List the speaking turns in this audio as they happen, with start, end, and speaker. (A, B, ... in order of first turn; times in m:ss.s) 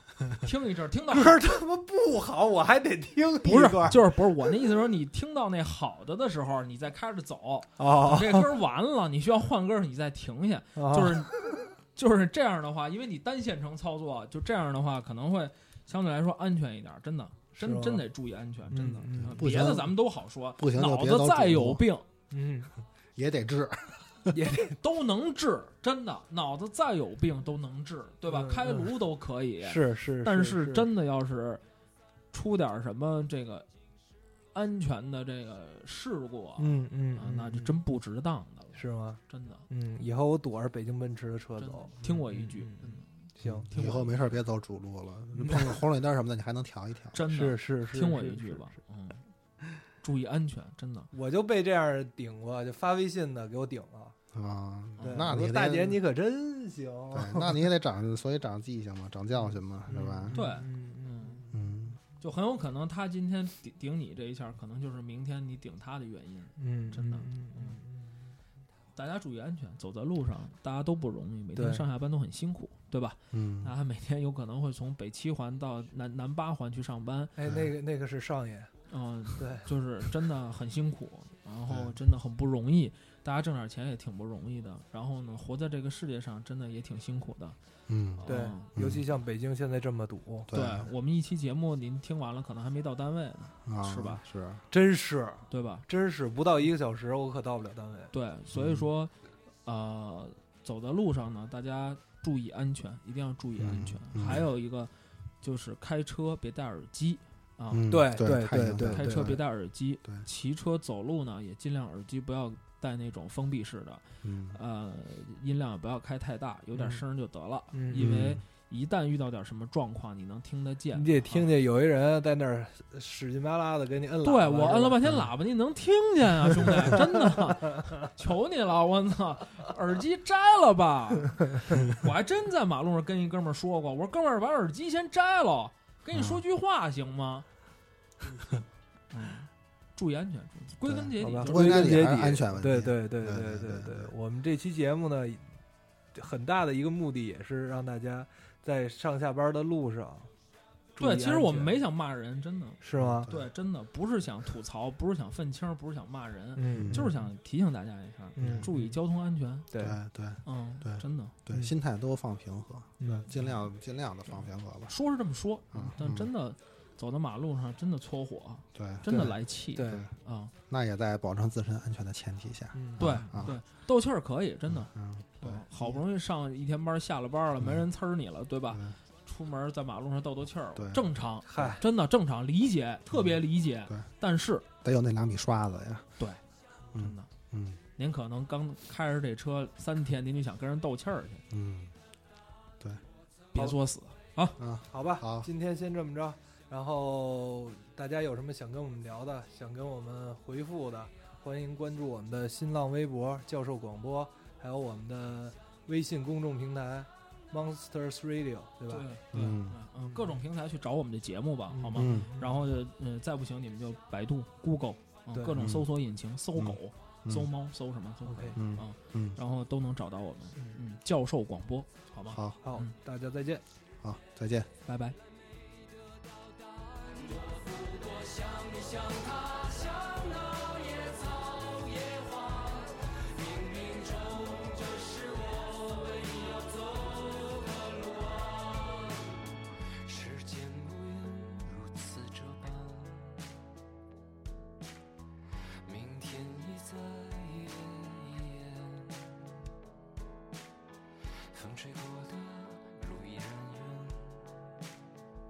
0:00.3-0:01.4 A
0:01.1-0:04.5 B
0:03.4-0:22.1 A
0:07.8-0:08.5 B
0:10.8-0:11.6 B
0:17.6-0:18.0 B
0:18.7-0:19.9 B
0:19.2-0:19.9 C
0:20.6-0:21.8 C
0:22.3-0:22.7 B
0:23.2-0:24.4 C
0:24.3-0:24.8 B
0:24.8-0:31.6 A
0:28.3-0:28.9 B
0:29.6-0:30.9 B
0:32.3-0:33.7 A
0:34.5-0:39.6 A
0:36.6-0:37.7 B
0:38.7-0:43.7 B
0:41.6-0:44.2 A
0:43.4-0:47.2 C
0:45.4-0:45.8 B
0:47.1-0:49.2 A
0:47.3-0:48.7 B
0:50.0-0:51.1 A
0:51.1-0:54.2 B
0:54.3-0:56.0 C
0:55.0-0:55.3 A
0:55.0-0:57.6 B
0:57.1-1:00.4 C
0:59.9-1:01.4 B
1:00.3-1:01.4 A
1:01.5-1:02.0 C
1:02.2-1:07.8 A
1:06.6-1:08.2 B
1:09.0-1:17.3 A
1:11.6-1:11.8 B
1:13.3-1:13.7 C
1:17.4-1:18.7 B
1:18.9-1:27.6 A
1:19.4-1:19.7 B
1:21.7-1:22.0 C
1:27.9-1:29.0 C
1:28.2-1:28.7 A
1:28.3-1:30.5 B
1:30.5-1:30.9 C
1:30.5-1:34.2 A
1:33.6-1:34.6 C
1:34.7-1:38.1 B
1:35.5-1:35.9 A
1:38.1-1:39.1 A
1:38.5-1:38.8 C
1:39.6-1:47.9 A
1:43.6-1:44.5 C
1:47.7-1:49.4 C
1:47.9-1:49.4 B
1:48.9-2:01.5 A
1:54.2-1:54.6 C
1:56.8-1:57.0 B
1:57.7-1:58.1 B
1:58.0-1:58.4 C
2:00.9-2:05.1 B
2:04.2-2:17.5 A
2:06.6-2:07.8 B
2:16.1-2:16.4 C
2:19.1-2:22.1 A
2:20.8-2:24.1 C
2:21.2-2:25.4 B
2:26.2-2:30.3 B
2:31.0-2:31.8 B
2:31.0-2:39.7 A
2:32.8-2:33.3 B
2:33.0-2:33.5 C
2:36.6-2:37.3 B
2:36.8-2:37.1 C
2:38.4-2:39.0 B
2:38.4-2:38.7 C
2:39.7-2:40.0 B
2:39.8-2:44.9 C
2:40.4-2:41.4 A
2:43.0-2:43.3 B
2:44.9-2:50.5 A
2:45.7-2:46.3 C
2:48.8-2:49.3 C
2:49.1-2:50.1 B
2:50.7-2:53.6 C
2:52.7-2:53.2 B
2:53.0-3:04.7 A
2:54.7-2:56.0 C
2:58.7-2:59.0 C
3:00.8-3:01.1 C
3:01.5-3:01.8 B
3:03.1-3:04.0 C
3:04.8-3:06.1 C
3:06.9-3:07.8 C
3:07.0-3:07.3 A
3:08.0-3:11.4 A
3:11.5-3:11.9 C
3:13.5-3:14.6 A
3:14.6-3:15.5 C
3:14.9-3:29.1 B
3:28.9-3:42.9 A
3:29.3-3:29.8 C
3:31.7-3:32.6 B
3:32.0-3:32.3 C
3:35.3-3:35.6 B
3:35.6-3:35.9 C
3:36.6-3:37.5 C
3:38.3-3:38.6 B
3:38.6-3:39.4 C
3:42.3-3:42.6 C
3:42.6-3:43.6 B
3:44.0-3:44.7 C
3:44.8-3:45.2 A
3:47.0-3:59.2 D
4:00.0-4:03.5 D
4:05.9-4:09.5 D
4:11.5-4:14.6 D